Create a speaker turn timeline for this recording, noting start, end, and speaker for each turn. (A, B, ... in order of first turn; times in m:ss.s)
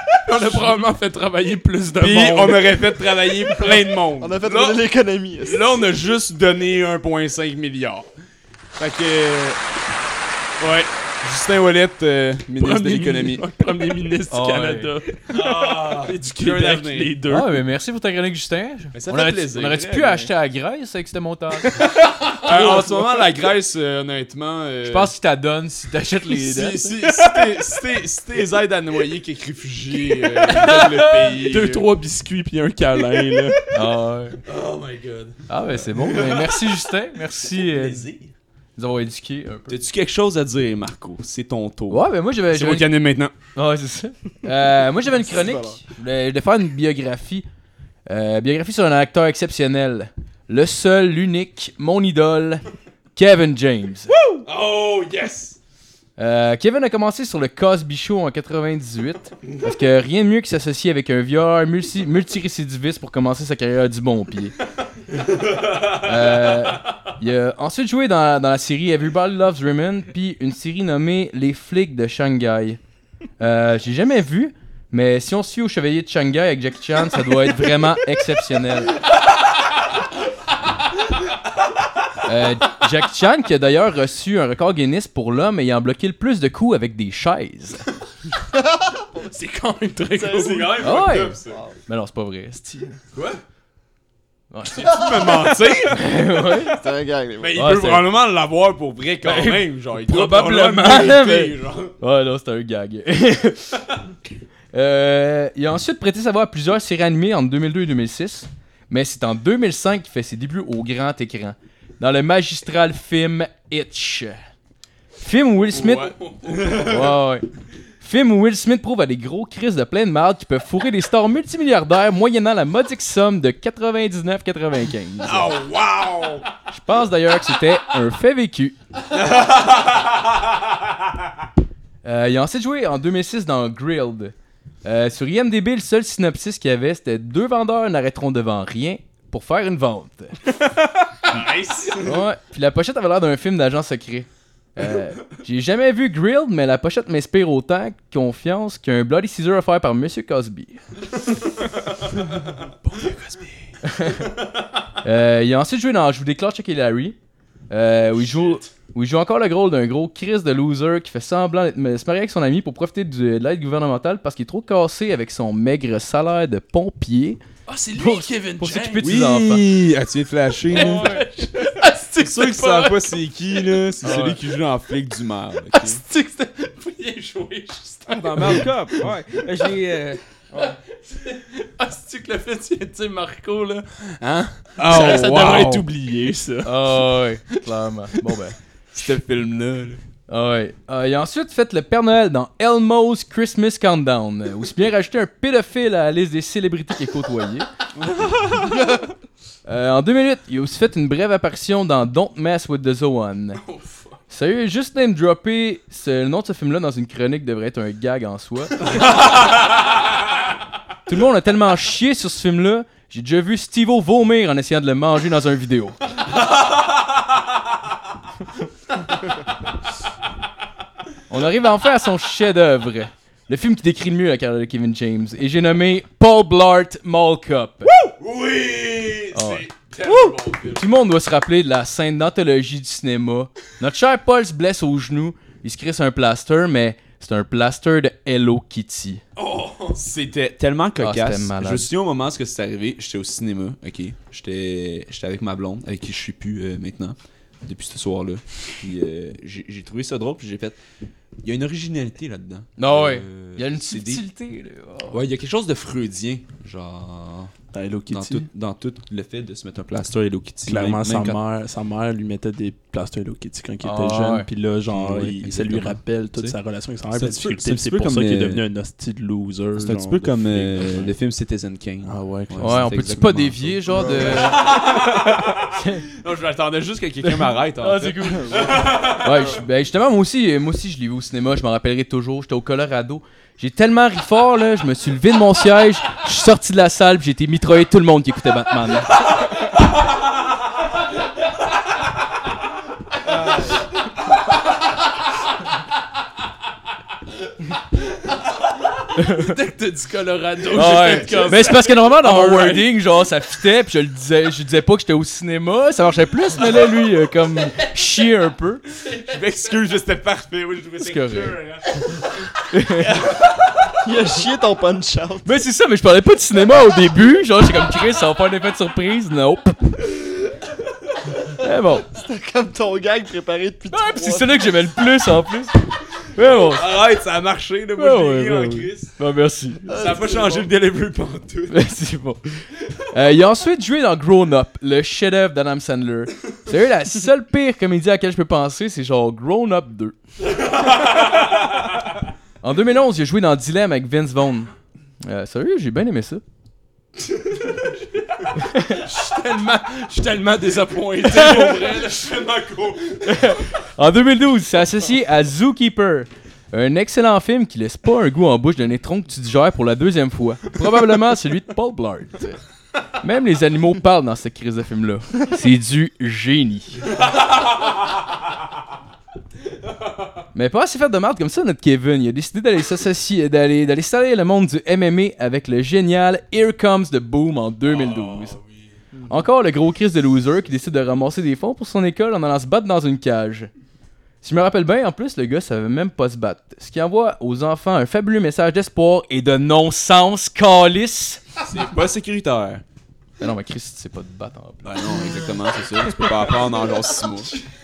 0:00.3-0:02.8 A
0:00.4-0:00.7 B
0:02.0-0:04.8 B
0:04.2-0:05.8 C
0:05.4-0:08.1 B
0:08.8-0:09.6 B
0:10.6-0:13.5 B
0:12.6-0:17.5 A
0:14.3-0:14.9 D
0:15.3-0:17.2 B
0:17.3-0:21.8 D
0:18.9-0:20.3 B
0:22.4-0:25.1 B
0:24.8-0:26.9 D
0:26.3-0:31.9 B
0:30.5-0:31.3 D
0:31.4-0:33.6 A
0:33.7-0:34.4 D
0:34.4-0:35.4 B
0:35.5-0:38.1 D
0:35.9-0:36.7 B
0:37.5-0:38.3 B
0:38.8-0:39.8 D
0:39.7-0:43.3 B
0:41.9-0:43.0 D
0:43.6-0:47.4 D
0:48.1-0:52.6 D
0:53.2-0:54.1 D
0:54.4-0:55.6 B
0:56.2-1:04.6 D
1:05.9-1:12.8 D
1:13.4-1:19.0 D
1:22.2-1:27.8 D
1:28.5-1:29.0 C
1:29.3-1:30.9 A
1:30.2-1:31.6 B
1:30.8-1:33.0 D
1:31.5-1:31.7 C
1:33.1-1:33.4 B
1:34.5-1:35.0 D
1:34.7-1:36.2 B
1:35.9-1:36.8 D
1:36.7-1:37.7 C
1:37.4-1:42.0 B
1:37.6-1:38.1 D
1:39.2-1:43.8 D
1:40.1-1:41.1 A
1:44.7-1:54.4 D
1:55.2-1:57.5 D
1:55.7-1:57.1 B
1:55.9-1:56.9 A
1:58.0-2:05.6 D
2:05.2-2:06.5 B
2:06.7-2:08.8 D
2:09.1-2:10.2 B
2:12.0-2:14.3 D
2:14.8-2:20.5 D
2:21.3-2:22.2 B
2:22.0-2:30.8 D
2:32.9-2:33.6 B
2:33.8-2:34.3 D
2:35.0-2:37.2 D
2:37.7-2:47.4 D
2:47.7-2:49.0 A
2:48.0-2:49.6 D
2:49.0-2:51.2 B
2:50.7-2:54.4 A
2:50.7-2:51.2 D
2:52.2-2:56.0 B
2:54.0-2:54.4 D
2:55.7-2:59.7 A
2:58.1-3:00.2 E
3:00.5-3:07.0 A
3:04.8-3:05.9 B
3:06.6-3:08.6 D
3:08.9-3:10.0 B
3:10.3-3:17.7 D
3:18.3-3:18.5 B
3:19.7-3:23.6 D
3:23.6-3:24.2 A
3:24.3-3:28.9 D
3:31.1-3:36.0 D
3:41.3-3:47.9 D
3:47.9-3:50.9 B
3:49.3-3:59.2 D
3:59.4-4:10.8 B
4:01.0-4:01.9 D
4:11.4-4:14.2 B
4:12.8-4:15.2 D
4:15.1-4:17.5 B
4:17.7-4:18.5 A
4:18.1-4:21.4 B
4:20.7-4:31.1 A
4:23.8-4:24.5 D
4:24.9-4:26.6 B
4:27.1-4:28.6 B
4:29.8-4:39.5 B
4:32.0-4:32.9 A
4:32.6-4:34.7 D
4:33.9-4:34.4 C
4:35.7-4:36.0 D
4:37.2-4:49.2 D
4:38.5-4:38.8 C
4:59.2-4:59.5 D
4:59.2-5:02.9 A
5:00.7-5:08.8 D
5:09.0-5:12.0 B
5:11.0-5:11.6 D
5:12.7-5:13.1 D
5:12.9-5:13.6 B
5:14.0-5:15.5 C
5:15.4-5:19.9 D
5:21.6-5:22.1 D
5:22.0-5:24.7 C
5:23.9-5:26.9 D
5:26.7-5:29.1 B
5:28.0-5:29.9 D
5:29.8-5:30.7 C
5:29.9-5:31.8 B
5:31.7-5:40.2 D
5:42.6-5:44.7 D
5:45.2-5:46.4 D
5:48.6-5:49.0 D
5:48.9-5:52.3 A
5:51.4-5:53.4 B
5:53.2-6:02.6 D
6:03.2-6:07.0 D
6:10.6-6:18.6 D
6:18.0-6:18.4 B
6:19.3-6:23.7 D
6:24.4-6:31.4 D
6:31.6-6:32.8 B
6:33.4-6:35.2 D
6:34.8-6:37.5 B